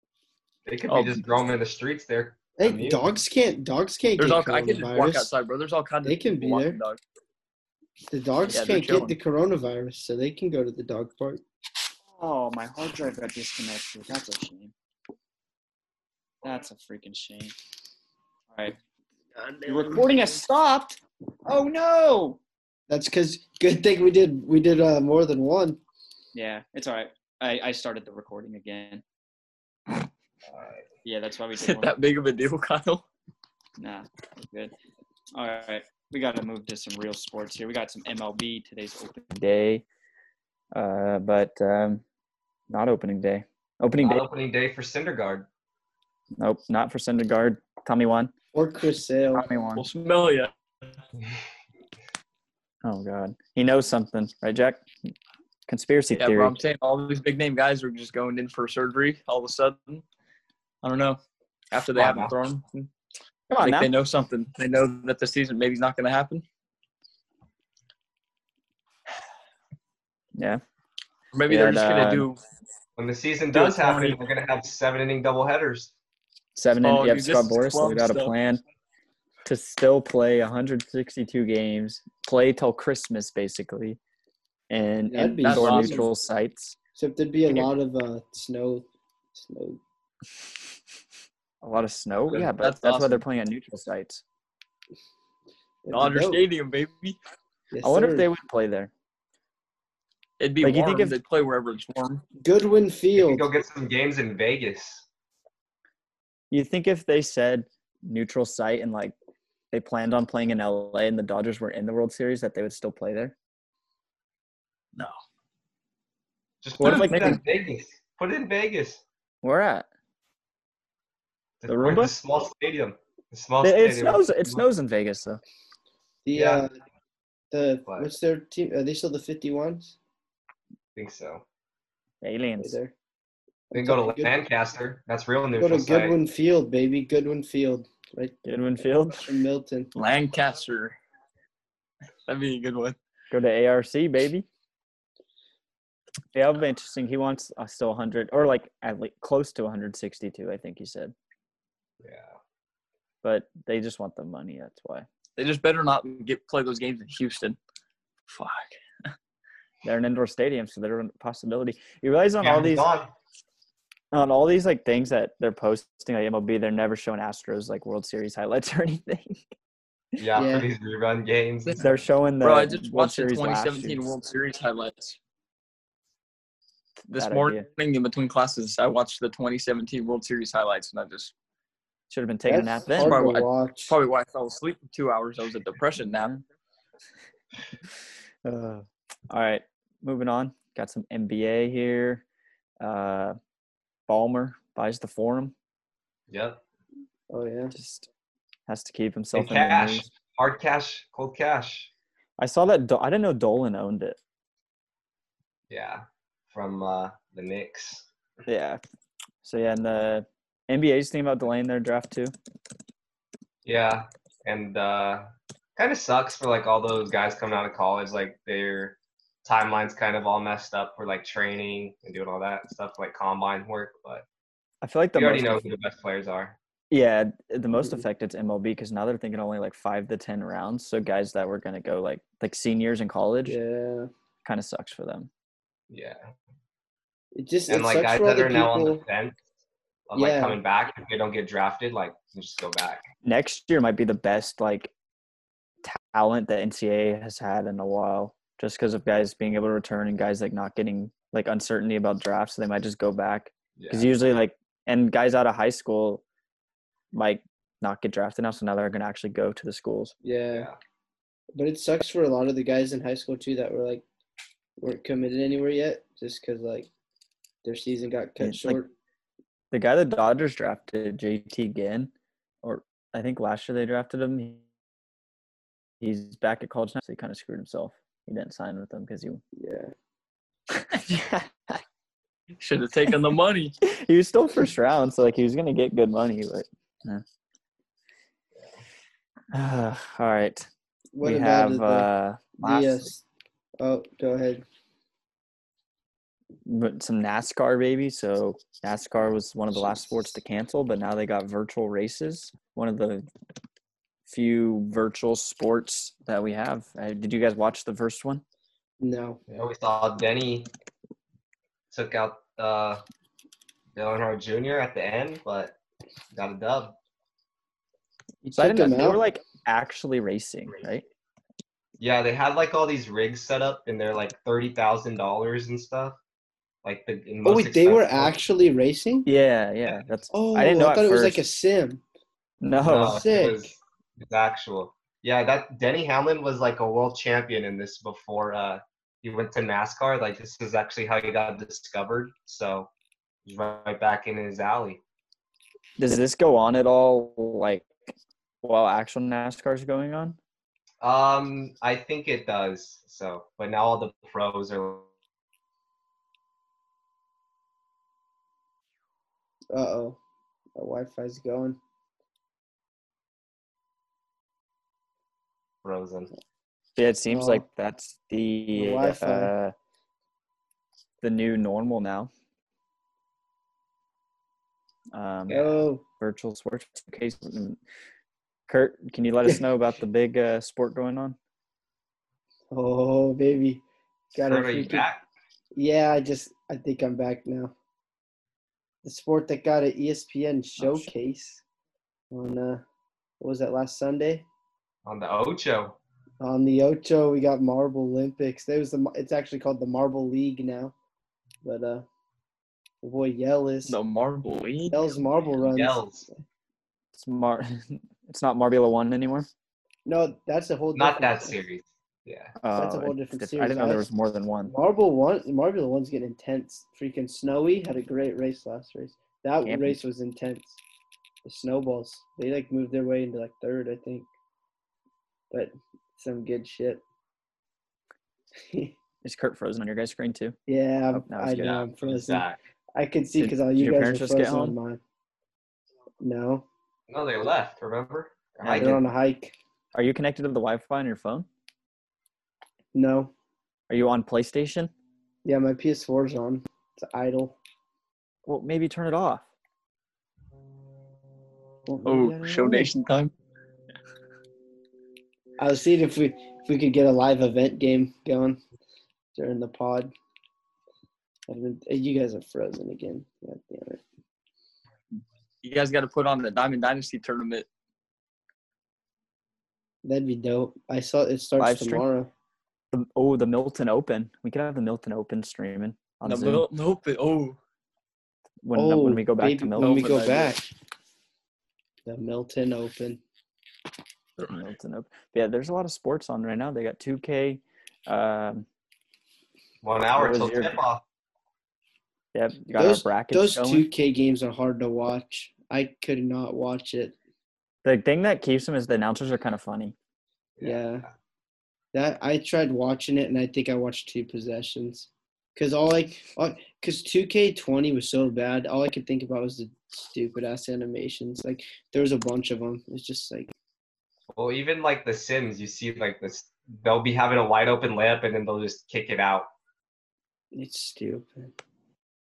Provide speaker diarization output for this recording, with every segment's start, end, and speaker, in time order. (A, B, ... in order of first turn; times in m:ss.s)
0:00.7-0:03.0 A
0:00.9-0:01.3 B
0:02.6-0:05.3 C
0:04.2-0:07.0 B
0:06.0-0:06.8 C
0:08.1-0:11.4 C
0:08.5-0:09.2 B
0:12.1-0:14.7 D
0:16.4-0:17.6 D
0:18.5-0:18.8 D
0:19.4-0:20.1 C
0:19.7-0:22.4 D
0:22.9-0:25.8 C
0:26.3-0:29.0 D
0:30.5-0:30.8 A
0:31.0-0:32.0 D
0:31.5-0:33.0 B
0:33.8-0:34.7 D
0:35.3-0:39.8 D
0:40.7-0:42.0 D
0:42.7-0:44.2 D
0:44.0-0:45.5 A
0:46.4-0:48.3 D
0:48.5-0:49.5 C
0:49.4-0:49.8 D
0:49.8-0:50.5 B
0:52.8-0:54.9 D
0:55.7-0:56.6 D
0:56.1-1:00.0 B
1:00.8-1:01.2 B
1:01.7-1:02.9 B
1:02.0-1:02.3 A
1:03.5-1:03.9 D
1:03.6-1:06.4 B
1:10.4-1:10.6 D
1:11.3-1:12.4 B
1:11.5-1:12.3 D
1:13.0-1:15.9 A
1:13.5-1:14.2 B
1:16.6-1:18.6 D
1:16.8-1:18.3 B
1:19.4-1:24.0 D
1:24.7-1:26.8 D
1:25.1-1:26.1 C
1:25.4-1:26.1 B
1:27.0-1:29.8 C
1:31.6-1:34.2 D
1:32.4-1:33.2 B
1:35.8-1:36.4 C
1:35.9-1:37.2 B
1:37.7-1:38.3 C
1:37.8-1:38.9 D
1:40.4-1:42.2 B
1:40.6-1:41.2 D
1:42.4-1:43.5 C
1:43.2-1:45.0 A
1:46.5-1:49.2 D
1:49.7-1:53.4 D
1:56.6-1:59.0 A
1:56.8-1:57.4 D
1:56.8-1:57.4 B
1:59.4-1:59.9 D
2:01.6-2:04.6 A
2:01.7-2:02.1 D
2:03.6-2:05.4 D
2:06.2-2:06.7 C
2:06.4-2:06.6 A
2:07.5-2:10.0 C
2:07.9-2:08.1 A
2:11.0-2:11.4 A
2:12.2-2:12.8 D
2:12.6-2:12.9 C
2:13.7-2:14.3 C
2:13.7-2:16.2 A
2:15.6-2:18.4 C
2:18.4-2:19.3 D
2:19.1-2:19.9 C
2:20.0-2:21.0 B
2:22.3-2:23.0 B
2:23.3-2:24.5 D
2:26.3-2:31.1 D
2:32.0-2:32.4 A
2:33.2-2:35.1 D
2:35.4-2:37.6 B
2:38.3-2:38.7 B
2:39.8-2:42.9 D
2:42.4-2:43.1 A
2:44.1-2:49.5 D
2:50.2-2:51.9 A
2:50.4-2:50.7 C
2:51.8-2:54.1 D
2:52.4-2:55.2 B
2:57.1-3:01.3 B
2:57.1-2:57.7 D
3:02.1-3:03.2 D
3:02.5-3:04.0 C
3:03.0-3:06.4 B
3:08.4-3:12.2 D
3:12.8-3:13.4 D
3:14.1-3:15.5 D
3:16.3-3:16.6 A
3:17.3-3:17.7 C
3:17.7-3:18.1 D
3:18.7-3:20.1 D
3:19.3-3:21.9 A
3:22.4-3:24.2 D
3:25.7-3:28.1 A
3:28.5-3:28.8 D
3:29.4-3:32.3 D
3:33.6-3:44.2 A
3:44.8-3:45.7 D
3:45.1-3:46.6 A
3:46.9-3:53.6 D
3:53.5-3:54.1 C
3:54.4-3:55.3 D
3:55.9-3:56.2 A
3:57.4-3:59.0 C
3:57.7-3:59.4 A
4:00.1-4:03.0 A
4:00.2-4:00.6 C
4:03.2-4:04.9 D
4:05.8-4:16.2 D
4:13.8-4:14.1 A
4:17.1-4:20.1 D
4:20.2-4:20.7 C
4:20.5-4:20.8 A
4:21.6-4:24.0 C
4:24.8-4:26.9 C
4:27.6-4:28.9 C
4:28.4-4:28.8 D
4:29.7-4:32.1 D
4:32.6-4:34.6 D
4:36.0-4:39.4 D
4:39.6-4:39.9 C
4:40.7-4:41.8 D
4:42.6-4:43.8 B
4:43.8-4:47.2 D
4:49.5-4:50.7 D
4:51.2-4:53.2 C
4:51.2-4:53.1 D
4:53.8-4:54.6 C
4:56.6-5:03.3 D
5:04.3-5:08.4 D
5:09.0-5:09.4 C
5:09.5-5:10.7 A
5:11.9-5:13.0 A
5:14.0-5:15.8 A
5:16.3-5:17.0 A
5:18.4-5:19.2 C
5:18.6-5:21.0 D
5:22.0-5:26.2 A
5:26.8-5:28.4 A
5:27.4-5:29.3 C
5:29.3-5:31.4 D
5:30.3-5:32.0 C
5:32.6-5:33.2 D
5:32.8-5:42.9 A
5:32.9-5:33.7 C
5:43.5-5:45.0 A
5:46.0-5:50.4 D
5:51.0-5:55.1 A
5:59.7-6:00.2 C
6:00.8-6:01.8 C
6:05.8-6:06.3 A
6:07.0-6:09.7 D
6:07.3-6:07.6 C
6:08.7-6:09.5 C
6:11.2-6:12.3 D
6:15.1-6:17.8 D
6:15.5-6:15.8 A
6:15.5-6:16.0 C
6:18.7-6:21.4 D
6:22.7-6:23.8 C
6:24.3-6:25.1 C
6:24.4-6:25.2 A
6:25.8-6:27.7 C
6:29.0-6:31.6 C
6:30.8-6:31.1 D
6:32.3-6:32.8 C
6:33.4-6:34.4 C
6:35.0-6:36.0 A
6:36.4-6:40.9 C
6:41.6-6:42.0 C
6:43.0-6:44.0 C
6:43.9-6:45.0 B
6:44.9-6:46.1 C
6:45.6-6:46.3 A
6:47.1-6:49.5 D
6:50.1-6:51.6 C
6:51.0-6:52.6 A
6:52.6-6:54.7 D
6:52.7-6:54.1 C
6:54.7-7:00.8 C
6:59.6-7:00.0 D
7:01.4-7:04.3 C
7:05.5-7:07.0 C
7:08.6-7:09.0 C
7:09.2-7:10.6 D
7:10.7-7:15.0 C
7:11.1-7:11.8 D
7:11.6-7:12.6 A
7:13.4-7:14.8 D
7:16.2-7:16.7 C
7:17.1-7:19.0 A
7:18.6-7:19.0 D
7:18.8-7:19.6 C
7:19.9-7:21.5 D
7:22.9-7:23.3 C
7:23.9-7:24.9 D
7:25.4-7:27.6 C
7:28.5-7:29.5 D
7:31.9-7:32.9 C
7:32.0-7:33.3 B
7:35.6-7:38.6 C
7:39.4-7:40.1 C
7:41.5-7:44.0 C
7:45.6-7:47.7 B
7:50.0-7:52.3 C
7:51.6-7:52.0 D
7:52.9-7:56.7 D
7:56.2-7:57.6 B
7:58.6-8:00.0 D
7:58.7-8:00.6 C
7:59.8-8:00.6 B
8:02.1-8:03.2 C
8:04.4-8:04.6 B
8:04.5-8:08.7 D
8:09.8-8:11.0 A
8:10.2-8:10.8 D
8:12.3-8:13.9 D
8:12.8-8:17.2 C
8:17.8-8:20.0 D
8:20.6-8:21.0 A
8:20.6-8:21.1 C
8:21.9-8:33.5 C
8:34.3-8:39.5 A
8:40.5-8:41.5 C